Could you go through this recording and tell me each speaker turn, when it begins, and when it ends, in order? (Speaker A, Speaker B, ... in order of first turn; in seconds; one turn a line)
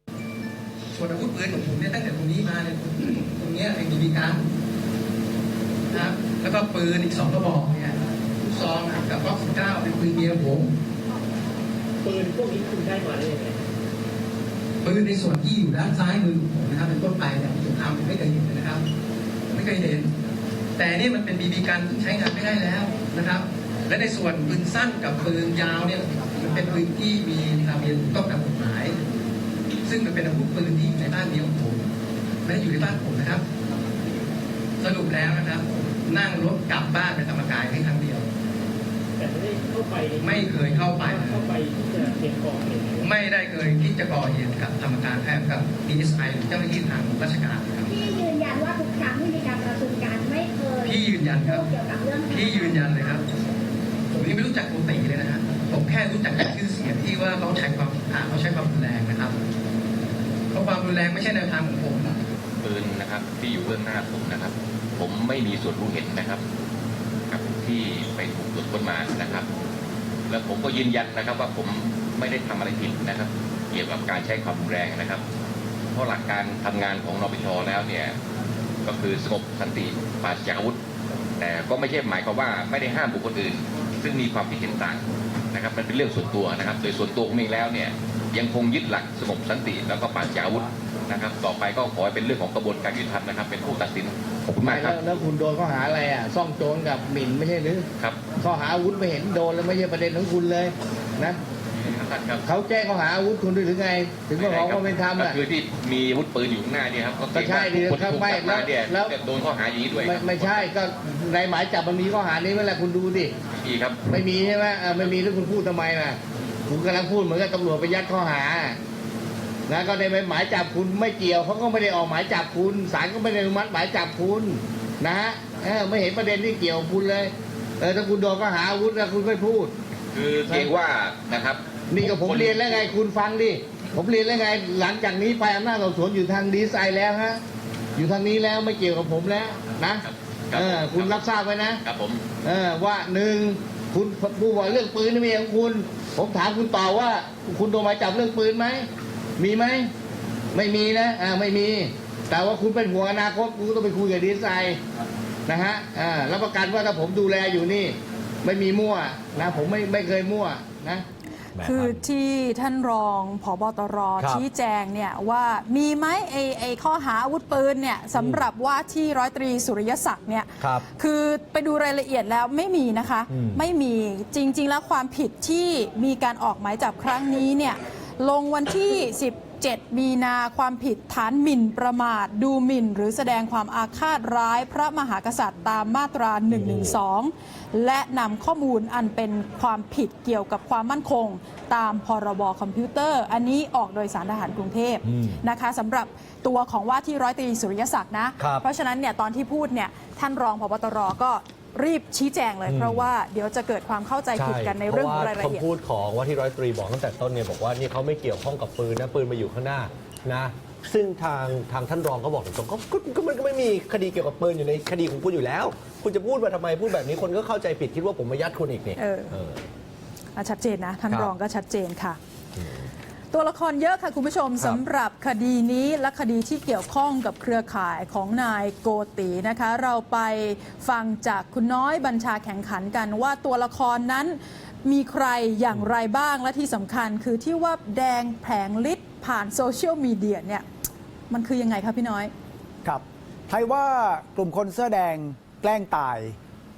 Speaker A: 0.9-4.5
Speaker A: 5.9-10.7
Speaker B: 12.0-13.6
Speaker A: 14.8-18.9
Speaker A: 19.5-20.1
Speaker A: 20.8-29.0
Speaker A: 29.9-31.8
Speaker A: 32.5-33.4
Speaker A: 34.8-38.3
Speaker B: 39.2-43.1
Speaker A: 40.2-41.5
Speaker A: 43.0-47.9
Speaker C: 47.9-51.0
Speaker A: 50.8-51.6
Speaker C: 51.5-53.2
Speaker A: 52.3-53.3
Speaker A: 54.1-59.4
Speaker A: 60.5-62.2
Speaker D: 62.6-66.4
Speaker D: 67.3-69.5
Speaker D: 70.3-75.2
Speaker D: 75.9-78.2
Speaker D: 78.8-80.8
Speaker D: 81.4-95.0
Speaker E: 94.6-101.4
Speaker D: 98.0-98.3
Speaker D: 101.7-102.5
Speaker E: 102.5-105.4
Speaker D: 104.4-110.7
Speaker E: 107.4-109.2
Speaker E: 109.9-113.4
Speaker D: 113.6-114.0
Speaker E: 114.1-118.8
Speaker E: 119.7-129.7
Speaker D: 130.1-132.8
Speaker E: 131.9-137.4
Speaker E: 138.0-141.8
Speaker D: 140.0-142.2
Speaker E: 142.4-149.9
Speaker E: 150.5-154.8
Speaker E: 155.5-161.1
Speaker F: 161.6-162.0
Speaker G: 161.6-205.7
Speaker F: 164.2-164.4
Speaker F: 168.1-168.4
Speaker F: 170.6-170.9
Speaker F: 173.3-173.6
Speaker F: 186.5-187.0
Speaker F: 195.1-195.4
Speaker F: 198.4-198.7
Speaker F: 202.7-203.1
Speaker F: 204.3-219.6
Speaker G: 219.0-219.4
Speaker G: 220.4-222.2
Speaker F: 221.1-221.3
Speaker F: 222.6-222.8
Speaker G: 223.3-240.7
Speaker G: 241.3-242.3
Speaker H: 242.8-246.3